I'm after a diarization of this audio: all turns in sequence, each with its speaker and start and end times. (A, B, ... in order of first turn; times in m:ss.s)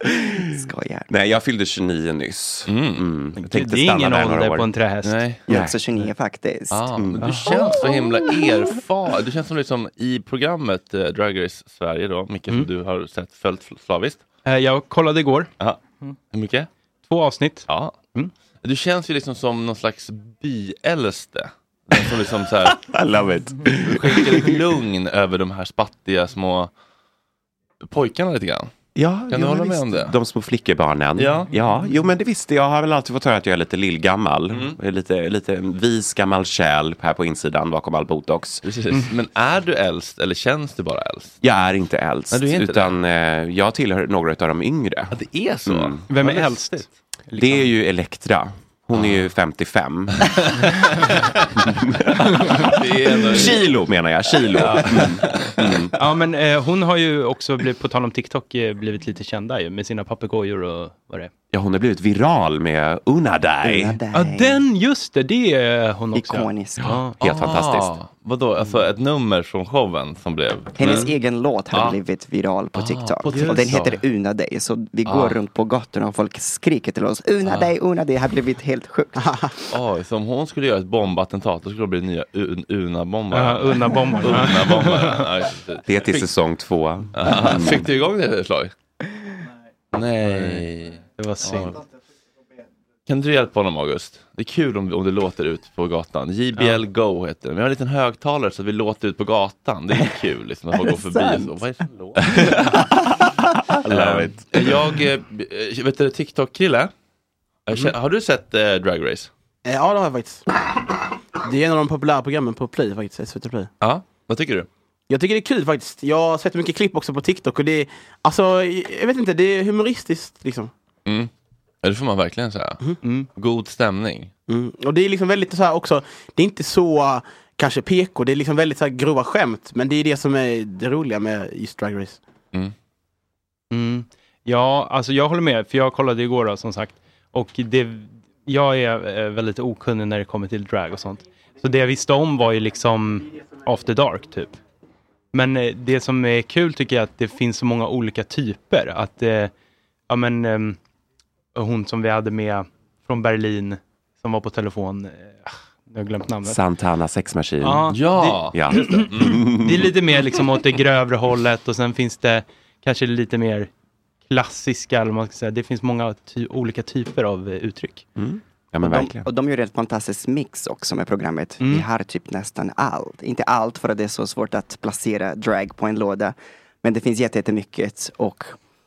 0:00.4-0:01.1 A
0:01.1-0:04.7 B
0:02.7-0:03.1 C
0:03.4-0:05.2 D
0:05.0-0:05.4 C
0:05.5-0:05.8 B
0:05.5-0:06.9 A
0:06.7-0:14.2 C
0:07.0-0:07.5 B
0:07.2-0:07.8 D
0:14.4-0:15.5 D
0:16.3-0:16.7 C
0:17.1-0:18.3 D
0:17.7-0:18.0 C
0:18.6-0:22.8 C
0:22.7-0:24.6 B
0:23.9-0:26.7 C
0:27.8-0:28.7 C
0:29.0-0:38.6 B
0:29.3-0:30.2 C
0:31.2-0:31.5 C
0:34.5-0:34.8 C
0:38.6-0:41.4 C
0:41.4-0:46.0 B
0:42.3-0:42.9 C
0:45.1-0:46.9 C
0:46.1-0:47.7 D
0:47.4-0:50.3 B
0:48.9-0:49.2 C
0:50.3-0:51.4 C
0:51.7-0:55.9 B
0:52.6-0:53.6 C
0:54.5-0:55.8 C
0:56.0-1:01.3 D
1:01.5-1:04.0 B
1:03.6-1:04.6 A
1:04.1-1:07.2 D
1:06.2-1:06.9 A
1:07.2-1:07.9 B
1:07.2-1:11.2 C
1:10.8-1:19.2 A
1:11.7-1:12.0 C
1:12.7-1:14.0 C
1:13.3-1:13.7 D
1:15.1-1:15.4 C
1:17.4-1:17.7 C
1:19.2-1:19.4 E
1:19.7-1:26.3 C
1:23.3-1:25.3 D
1:25.9-1:27.8 B
1:27.1-1:28.7 C
1:29.9-1:31.8 C
1:30.3-1:30.6 D
1:31.2-1:31.8 D
1:33.1-1:42.8 C
1:43.8-1:44.6 B
1:43.8-1:46.9 C
1:47.6-1:49.3 C
1:49.6-1:50.4 E
1:51.4-1:53.7 E
1:53.8-1:54.7 C
1:55.1-2:00.7 E
2:01.0-2:01.3 C
2:01.8-2:02.8 C
2:03.0-2:03.3 D
2:03.4-2:04.3 C
2:04.5-2:12.2 E
2:13.7-2:24.6 D
2:25.3-2:29.5 D
2:30.1-2:30.8 D
2:31.6-2:36.6 D
2:36.4-2:37.9 B
2:37.6-2:43.7 D
2:37.9-2:39.4 C
2:38.5-2:39.9 B
2:44.3-2:48.1 D
2:48.2-2:49.3 B
2:48.8-2:58.6 A
2:51.6-2:51.9 D